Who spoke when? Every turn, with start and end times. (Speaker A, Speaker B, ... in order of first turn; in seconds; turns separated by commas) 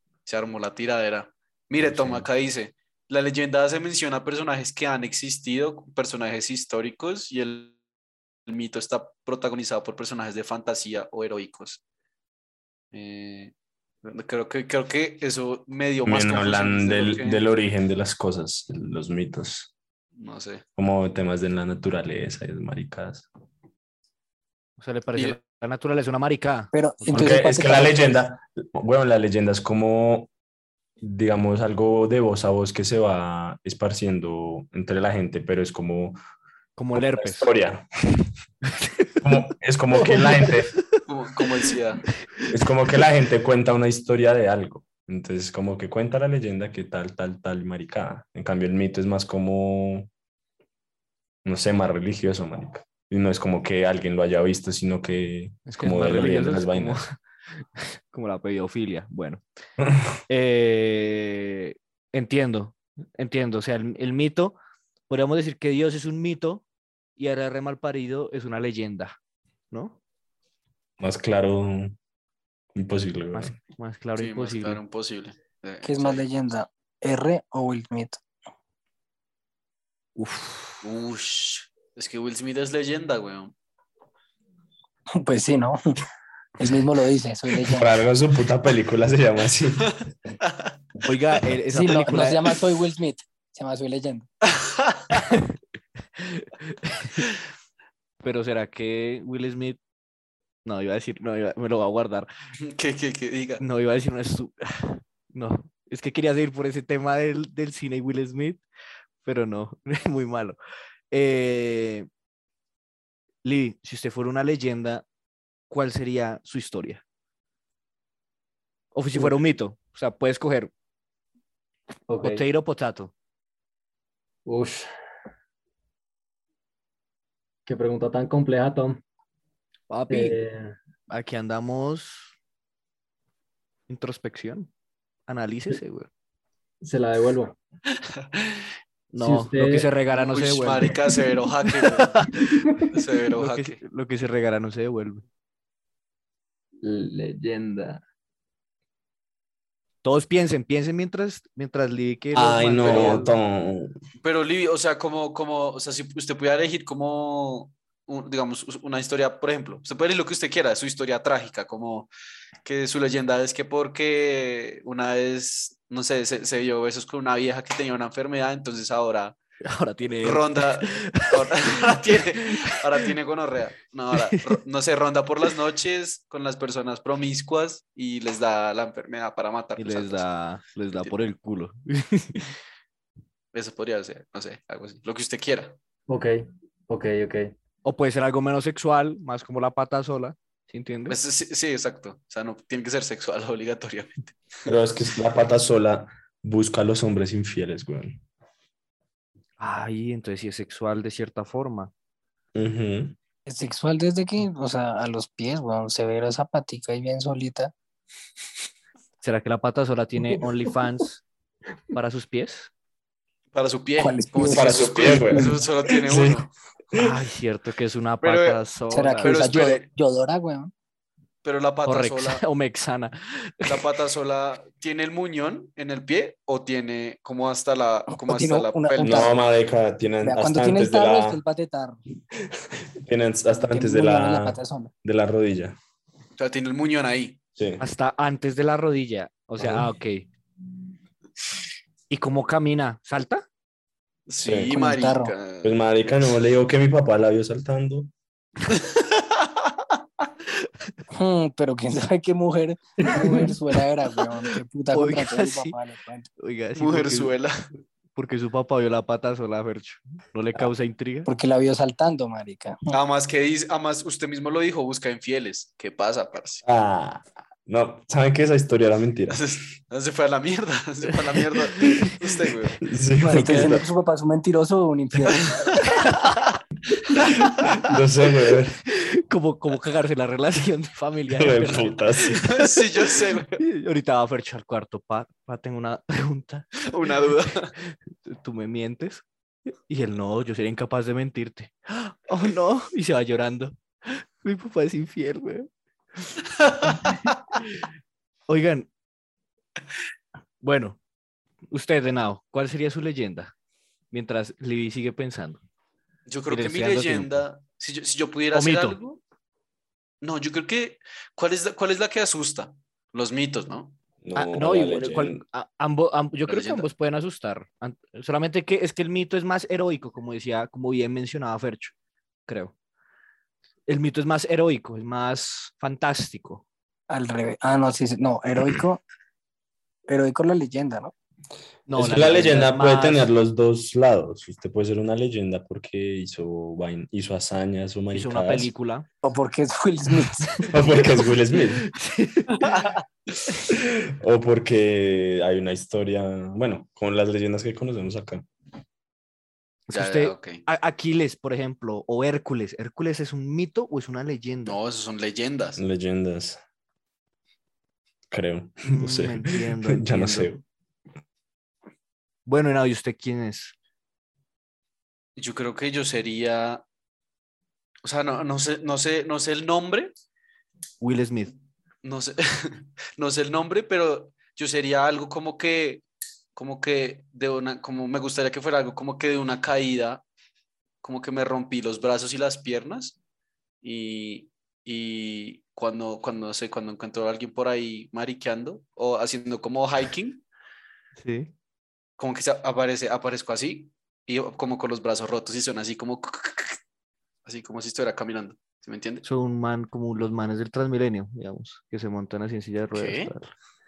Speaker A: 0.3-7.8, Speaker B: 1.9-2.3, Speaker A: 8.5-11.8, Speaker A: 12.9-17.4, Speaker B: 16.1-19.7, Speaker A: 20.2-20.6, Speaker B: 20.8-23.3, Speaker C: 24.8-27.5, Speaker D: 26.7-28.1, Speaker B: 27.1-30.3, Speaker B: 31.0-36.2, Speaker C: 36.8-37.5, Speaker B: 37.0-37.9, Speaker C: 38.7-40.7, Speaker B: 39.2-40.7, Speaker A: 41.1-42.0, Speaker B: 42.5-50.1, Speaker B: 51.5-57.0, Speaker C: 55.7-59.4, Speaker B: 59.8-60.0, Speaker C: 60.3-64.6, Speaker C: 65.1-66.7, Speaker C: 67.2-69.2, Speaker C: 69.7-70.0, Speaker B: 71.0-72.0, Speaker B: 72.8-73.5, Speaker C: 73.3-74.8, Speaker A: 74.2-76.3, Speaker D: 75.8-78.2, Speaker C: 80.2-80.8, Speaker A: 80.8-83.5, Speaker D: 85.2-85.8, Speaker D: 86.6-87.9, Speaker B: 87.6-90.0, Speaker A: 90.5-90.7, Speaker C: 91.0-92.6, Speaker D: 91.7-94.3, Speaker A: 94.5-95.2, Speaker C: 95.1-95.5, Speaker C: 96.2-97.3, Speaker C: 98.2-99.8, Speaker C: 100.7-102.3, Speaker A: 102.6-103.6, Speaker C: 103.6-108.6, Speaker C: 109.2-110.6, Speaker C: 111.1-112.1, Speaker C: 113.4-115.0, Speaker C: 115.7-117.0, Speaker C: 118.9-120.7, Speaker E: 119.1-119.4, Speaker E: 122.1-122.4, Speaker C: 122.2-123.1, Speaker E: 124.5-124.9, Speaker E: 127.7-129.0, Speaker C: 129.9-130.4, Speaker E: 130.1-130.8, Speaker C: 131.1-132.3, Speaker C: 133.9-134.7, Speaker C: 135.3-136.1, Speaker E: 136.8-137.6, Speaker C: 139.1-141.0, Speaker E: 139.2-139.9, Speaker A: 140.1-142.3, Speaker C: 141.7-142.6, Speaker A: 142.9-143.8, Speaker C: 143.3-145.2, Speaker E: 146.8-148.0, Speaker C: 150.0-153.3, Speaker B: 152.3-153.9, Speaker A: 152.8-153.2, Speaker A: 154.2-162.1, Speaker A: 162.7-169.4, Speaker C: 169.7-172.7, Speaker A: 170.2-180.3, Speaker C: 174.1-174.4, Speaker C: 179.8-182.6, Speaker A: 183.5-185.8, Speaker E: 186.1-187.5, Speaker C: 187.8-191.2, Speaker A: 191.1-194.7, Speaker B: 194.7-198.2, Speaker C: 199.6-201.9, Speaker B: 202.6-203.2, Speaker D: 203.5-207.7, Speaker C: 209.2-211.2, Speaker C: 211.9-212.7, Speaker A: 213.5-216.5, Speaker D: 214.0-215.6, Speaker B: 214.5-217.1, Speaker C: 216.9-219.7, Speaker A: 218.2-218.6, Speaker D: 218.9-220.7, Speaker A: 219.2-219.9, Speaker A: 221.4-222.4, Speaker C: 221.9-223.8, Speaker A: 223.7-229.3, Speaker D: 228.1-229.4, Speaker B: 229.0-231.4, Speaker D: 230.2-232.0, Speaker B: 233.0-235.8, Speaker D: 233.5-234.9, Speaker A: 236.4-237.4, Speaker B: 237.6-237.9, Speaker C: 237.8-240.3, Speaker B: 239.6-239.9, Speaker C: 242.1-243.4, Speaker A: 244.3-245.8, Speaker B: 244.4-244.7, Speaker D: 244.7-245.3, Speaker B: 245.6-248.1, Speaker A: 248.7-249.5, Speaker D: 251.1-256.3, Speaker E: 253.0-253.5, Speaker C: 254.9-255.8, Speaker C: 256.4-257.3, Speaker A: 256.8-257.5, Speaker C: 258.1-261.3, Speaker D: 261.2-262.9, Speaker A: 262.9-266.6, Speaker B: 266.6-269.4, Speaker A: 269.3-272.8, Speaker C: 271.6-272.1, Speaker B: 272.8-273.9, Speaker D: 273.2-275.5, Speaker C: 273.4-273.8, Speaker A: 275.3-276.0, Speaker C: 275.8-276.4, Speaker B: 277.3-278.8, Speaker C: 278.9-282.9, Speaker B: 281.3-282.4, Speaker A: 282.4-283.6, Speaker C: 283.6-289.3, Speaker A: 286.9-287.7, Speaker C: 289.9-295.7, Speaker C: 296.2-297.8, Speaker A: 296.6-297.3, Speaker C: 298.5-298.9, Speaker C: 300.6-301.0, Speaker C: 301.7-303.5, Speaker C: 304.1-305.6, Speaker A: 306.3-309.2, Speaker C: 306.5-307.4, Speaker C: 308.5-309.0, Speaker A: 310.2-314.0, Speaker B: 314.2-315.4, Speaker C: 314.4-321.9, Speaker A: 316.5-316.9, Speaker C: 322.5-322.7, Speaker C: 323.9-326.6, Speaker D: 327.1-329.0, Speaker D: 330.1-331.1, Speaker C: 331.9-333.3, Speaker B: 331.9-338.7, Speaker C: 338.1-339.1, Speaker D: 339.2-340.7, Speaker B: 340.7-341.9, Speaker C: 341.5-342.9, Speaker A: 342.6-343.0, Speaker C: 343.5-343.9, Speaker B: 343.8-348.4, Speaker C: 349.9-354.8, Speaker A: 349.9-350.7, Speaker A: 354.7-355.8, Speaker B: 355.8-356.6, Speaker B: 358.3-360.6, Speaker C: 358.9-360.5, Speaker C: 362.5-363.8, Speaker A: 365.4-366.8, Speaker A: 368.0-370.1, Speaker C: 371.0-371.5, Speaker A: 372.0-376.0, Speaker A: 376.6-380.2, Speaker A: 381.0-383.2, Speaker A: 383.8-390.4, Speaker C: 391.2-391.5, Speaker A: 392.2-396.8, Speaker A: 397.5-399.2, Speaker C: 399.2-403.5, Speaker A: 402.9-403.3